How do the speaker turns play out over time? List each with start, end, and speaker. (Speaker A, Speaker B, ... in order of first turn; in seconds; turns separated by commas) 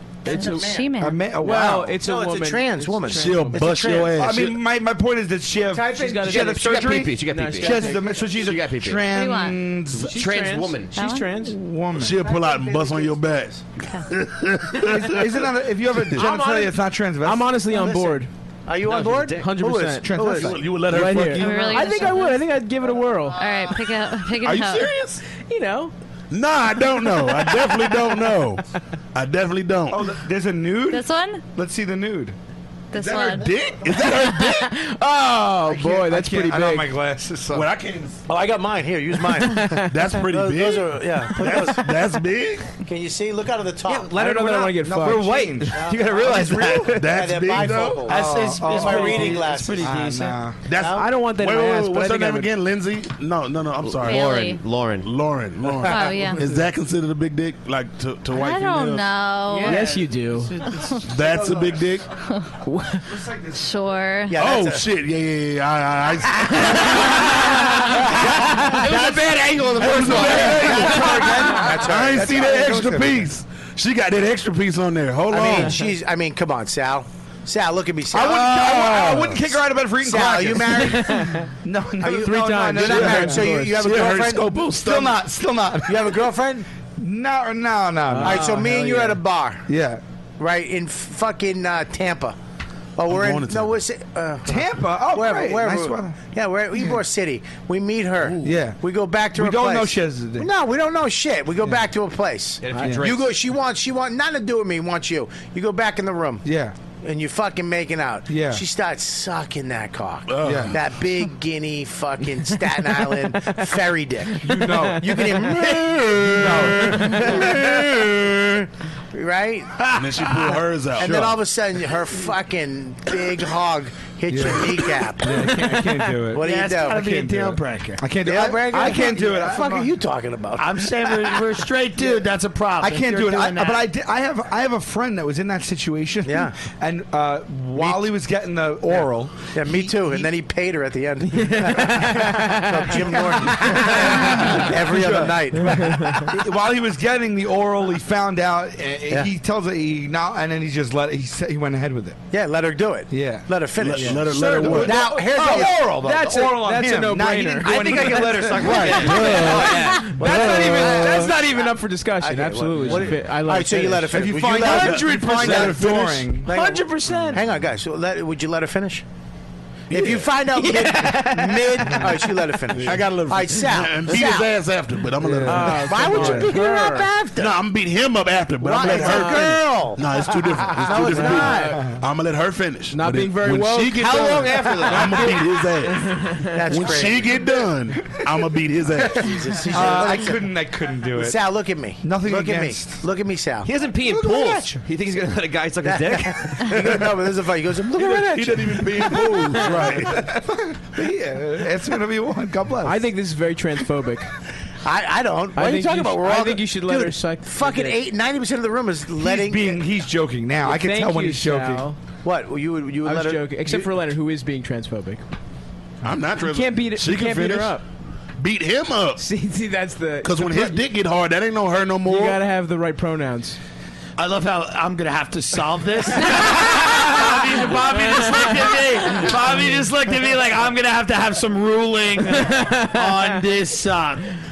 Speaker A: 0.2-4.3, Speaker B: 0.3-0.7, Speaker C: 0.3-1.3, Speaker D: 1.0-1.8, Speaker B: 1.4-4.1, Speaker E: 3.1-4.6, Speaker D: 4.2-10.2, Speaker A: 5.7-6.5, Speaker B: 5.8-8.2, Speaker F: 6.2-9.1, Speaker C: 9.1-9.7, Speaker F: 10.0-10.9, Speaker B: 10.0-11.6, Speaker C: 10.9-11.3, Speaker D: 11.4-12.3, Speaker E: 11.9-15.5, Speaker A: 12.1-13.6, Speaker D: 14.8-17.5, Speaker A: 16.2-16.7, Speaker B: 17.2-18.3, Speaker A: 17.7-20.6, Speaker F: 18.8-19.6, Speaker B: 19.3-23.5, Speaker D: 20.0-20.8, Speaker E: 20.4-21.8, Speaker C: 21.3-22.5, Speaker C: 23.3-24.9, Speaker E: 24.4-25.2, Speaker B: 25.3-25.9, Speaker E: 26.3-30.0, Speaker B: 27.1-28.4, Speaker D: 29.9-32.3, Speaker C: 30.9-31.4, Speaker C: 32.9-33.5, Speaker D: 32.9-33.4, Speaker E: 33.1-34.7, Speaker B: 33.9-36.9, Speaker D: 35.6-37.7, Speaker E: 37.5-38.2, Speaker A: 38.3-41.9, Speaker B: 39.3-40.1, Speaker E: 39.7-42.7, Speaker A: 42.8-44.2, Speaker B: 43.9-46.8, Speaker D: 44.1-47.0, Speaker A: 45.7-50.0, Speaker E: 46.9-48.1, Speaker G: 48.1-50.4, Speaker D: 48.1-50.6, Speaker E: 50.6-59.2, Speaker A: 50.7-51.1, Speaker B: 50.8-52.5, Speaker F: 53.8-55.1, Speaker C: 54.0-54.6, Speaker C: 55.8-56.5, Speaker C: 58.3-59.8, Speaker B: 59.6-60.6, Speaker G: 59.6-60.1, Speaker C: 60.6-61.1, Speaker D: 60.6-61.9, Speaker E: 61.0-62.1, Speaker B: 62.6-63.2, Speaker D: 63.0-63.7, Speaker C: 63.5-64.3, Speaker A: 64.3-64.9, Speaker E: 64.4-68.1, Speaker B: 66.6-71.1, Speaker D: 68.2-73.3, Speaker E: 69.7-75.8, Speaker F: 70.2-70.7, Speaker A: 70.5-72.5, Speaker A: 75.3-78.7, Speaker D: 78.1-83.5, Speaker E: 78.3-79.4, Speaker A: 80.0-81.4, Speaker B: 80.8-81.5, Speaker A: 82.0-84.5, Speaker B: 82.1-83.9, Speaker E: 82.9-83.1, Speaker E: 83.7-85.2, Speaker D: 84.7-86.3, Speaker A: 85.8-86.7, Speaker D: 87.0-89.1, Speaker B: 88.1-89.1, Speaker A: 88.2-89.7, Speaker D: 89.7-90.0, Speaker A: 90.4-92.4, Speaker A: 93.0-106.5, Speaker E: 93.1-93.8, Speaker D: 94.5-96.2, Speaker D: 98.4-98.8, Speaker D: 99.3-100.5, Speaker F: 102.6-103.4, Speaker D: 102.8-103.1, Speaker D: 106.4-106.7, Speaker A: 107.0-120.3, Speaker D: 108.3-108.6, Speaker E: 110.3-110.8, Speaker D: 110.4-110.8, Speaker D: 114.4-117.5, Speaker B: 114.8-115.7, Speaker E: 119.9-121.4, Speaker A: 120.9-125.5, Speaker D: 121.0-121.3, Speaker D: 124.3-129.9, Speaker A: 126.3-127.0, Speaker G: 126.4-128.0, Speaker A: 128.2-131.3, Speaker G: 130.6-133.9, Speaker D: 132.8-140.3, Speaker A: 136.2-136.5, Speaker A: 137.7-138.1, Speaker A: 138.9-146.2, Speaker B: 141.3-142.9, Speaker D: 143.2-152.2, Speaker B: 145.7-146.3, Speaker A: 152.3-156.3, Speaker D: 153.1-153.4, Speaker E: 153.8-155.0, Speaker D: 154.0-161.2, Speaker B: 155.3-164.4, Speaker A: 157.6-159.4, Speaker F: 157.6-161.3, Speaker A: 160.1-161.3, Speaker E: 160.3-160.7, Speaker A: 162.2-169.0, Speaker D: 164.1-166.5, Speaker E: 164.5-166.3, Speaker B: 166.4-167.4, Speaker E: 169.9-170.3, Speaker A: 169.9-174.5, Speaker B: 170.0-172.5, Speaker E: 172.8-176.1, Speaker B: 175.2-177.1, Speaker D: 175.2-176.5, Speaker A: 175.7-177.6, Speaker E: 177.3-189.3, Speaker A: 178.6-181.7, Speaker B: 178.8-179.6, Speaker B: 180.9-181.9, Speaker D: 181.7-182.0, Speaker B: 182.9-184.5, Speaker F: 183.9-186.1, Speaker B: 186.1-186.5, Speaker A: 186.5-187.3, Speaker D: 189.0-191.4, Speaker A: 189.1-190.6, Speaker A: 191.2-193.7, Speaker D: 192.0-193.0, Speaker F: 193.6-197.1, Speaker D: 194.0-194.8, Speaker A: 195.8-199.3, Speaker E: 197.9-200.2, Speaker B: 199.3-199.9, Speaker D: 199.7-203.0, Speaker B: 202.8-204.3, Speaker A: 204.8-209.8, Speaker B: 205.5-208.0, Speaker D: 209.1-211.8, Speaker B: 210.6-212.0, Speaker A: 212.2-213.8, Speaker B: 213.0-215.2, Speaker E: 216.0-217.8, Speaker B: 216.3-217.8, Speaker E: 218.4-219.2, Speaker B: 219.2-220.8, Speaker E: 220.2-222.4, Speaker B: 222.0-223.6, Speaker G: 224.2-234.3, Speaker B: 227.1-229.7, Speaker B: 232.3-233.4